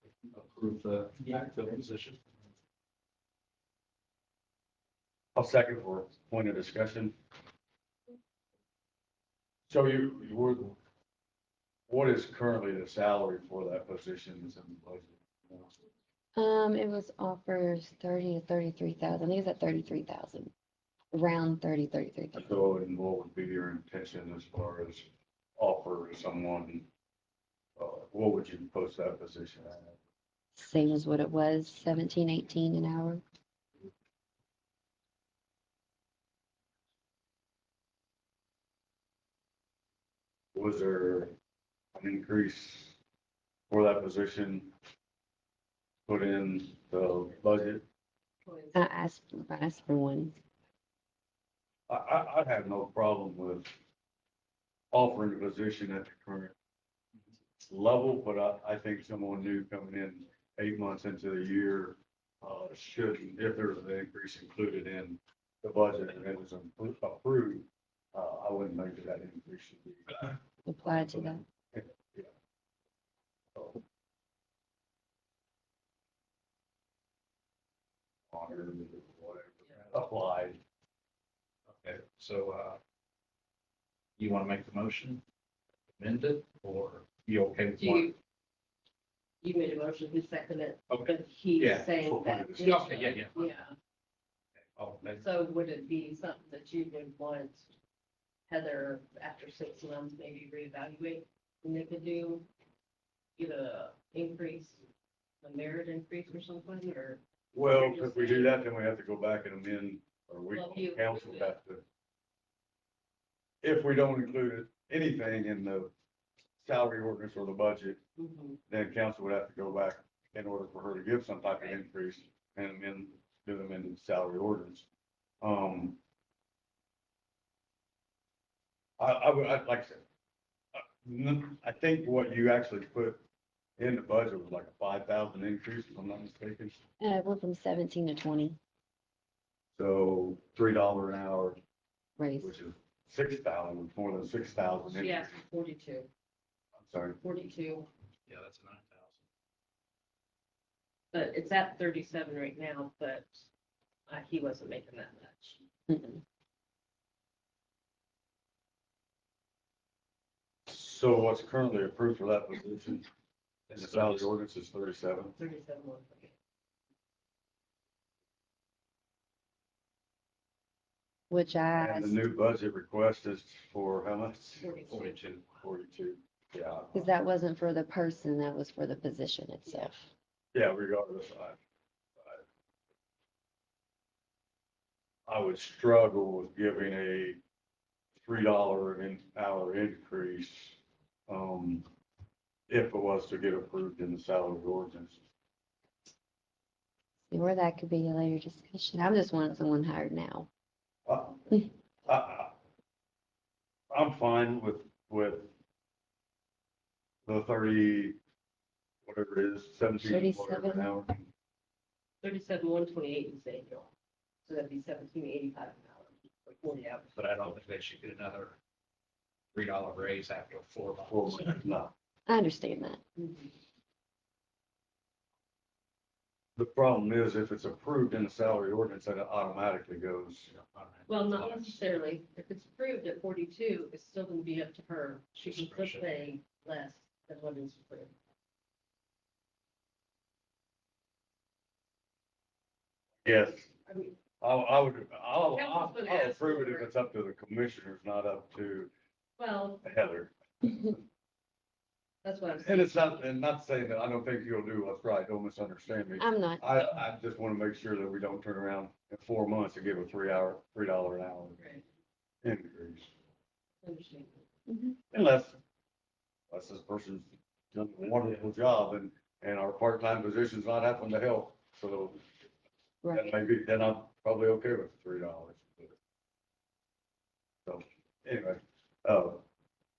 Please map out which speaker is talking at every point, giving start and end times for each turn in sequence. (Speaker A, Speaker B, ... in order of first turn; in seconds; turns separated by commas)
Speaker A: 0.3-2.2, Speaker B: 5.3-7.1, Speaker B: 9.7-10.8, Speaker B: 11.9-15.8, Speaker C: 16.4-20.5, Speaker C: 21.1-22.6, Speaker B: 22.4-26.9, Speaker B: 27.8-30.0, Speaker C: 30.6-33.2, Speaker B: 40.5-41.3, Speaker B: 41.9-43.0, Speaker B: 43.7-44.7, Speaker B: 46.1-47.8, Speaker D: 48.4-48.9, Speaker C: 48.7-50.3, Speaker B: 51.9-53.7, Speaker B: 54.9-56.5, Speaker B: 57.7-70.3, Speaker C: 70.7-71.4, Speaker B: 70.8-72.3, Speaker B: 73.5-73.8, Speaker B: 78.3-80.6, Speaker A: 81.7-82.8, Speaker A: 84.2-85.2, Speaker A: 86.0-88.1, Speaker D: 87.8-88.2, Speaker D: 89.4-93.7, Speaker A: 90.9-91.9, Speaker B: 92.0-93.0, Speaker A: 92.6-93.5, Speaker A: 94.8-95.2, Speaker D: 95.2-97.7, Speaker D: 98.5-102.5, Speaker D: 103.4-104.8, Speaker D: 105.4-108.6, Speaker B: 107.5-111.8, Speaker D: 110.5-111.6, Speaker B: 113.6-115.9, Speaker B: 116.6-118.0, Speaker D: 118.2-118.6, Speaker B: 118.7-124.8, Speaker B: 125.4-126.0, Speaker B: 129.0-130.0, Speaker B: 130.7-133.2, Speaker B: 133.8-136.8, Speaker C: 137.0-138.6, Speaker B: 139.7-141.6, Speaker C: 142.2-142.5, Speaker B: 142.4-145.3, Speaker D: 144.9-146.1, Speaker B: 146.8-147.2, Speaker D: 147.2-147.9, Speaker A: 148.3-149.2, Speaker D: 151.1-153.5, Speaker D: 154.1-155.6, Speaker C: 155.9-156.2, Speaker B: 160.7-163.1, Speaker A: 163.7-164.3, Speaker B: 163.7-165.3, Speaker D: 165.3-166.3, Speaker C: 171.3-172.2, Speaker B: 171.7-174.7, Speaker D: 174.6-175.4, Speaker A: 174.9-175.4, Speaker B: 175.6-177.1, Speaker C: 176.9-180.1, Speaker D: 179.6-179.9, Speaker B: 180.5-181.6, Speaker B: 185.3-187.4, Speaker B: 188.2-191.9, Speaker B: 192.7-195.2, Speaker C: 197.3-200.5, Speaker B: 201.1-202.5, Speaker B: 203.9-205.5, Speaker B: 207.2-208.2, Speaker B: 209.1-211.3, Speaker C: 210.0-210.9, Speaker D: 212.2-213.9, Speaker D: 214.4-217.1, Speaker A: 217.2-218.6, Speaker A: 219.5-221.6, Speaker B: 221.1-221.9, Speaker C: 222.3-223.0, Speaker D: 223.2-223.5, Speaker B: 226.6-230.5, Speaker A: 230.5-231.8, Speaker D: 231.1-238.1, Speaker A: 235.4-236.1, Speaker B: 243.2-243.7, Speaker D: 243.8-244.2, Speaker B: 244.4-248.9, Speaker D: 245.5-246.9, Speaker D: 249.4-249.8, Speaker B: 249.8-250.9, Speaker D: 252.2-253.2, Speaker B: 252.6-261.6, Speaker C: 256.2-256.9, Speaker D: 261.6-261.8, Speaker B: 262.4-263.1, Speaker D: 263.8-264.4, Speaker C: 264.7-265.0, Speaker B: 265.1-265.6, Speaker B: 266.5-272.2, Speaker C: 273.0-273.3, Speaker B: 273.1-275.9, Speaker B: 277.6-279.4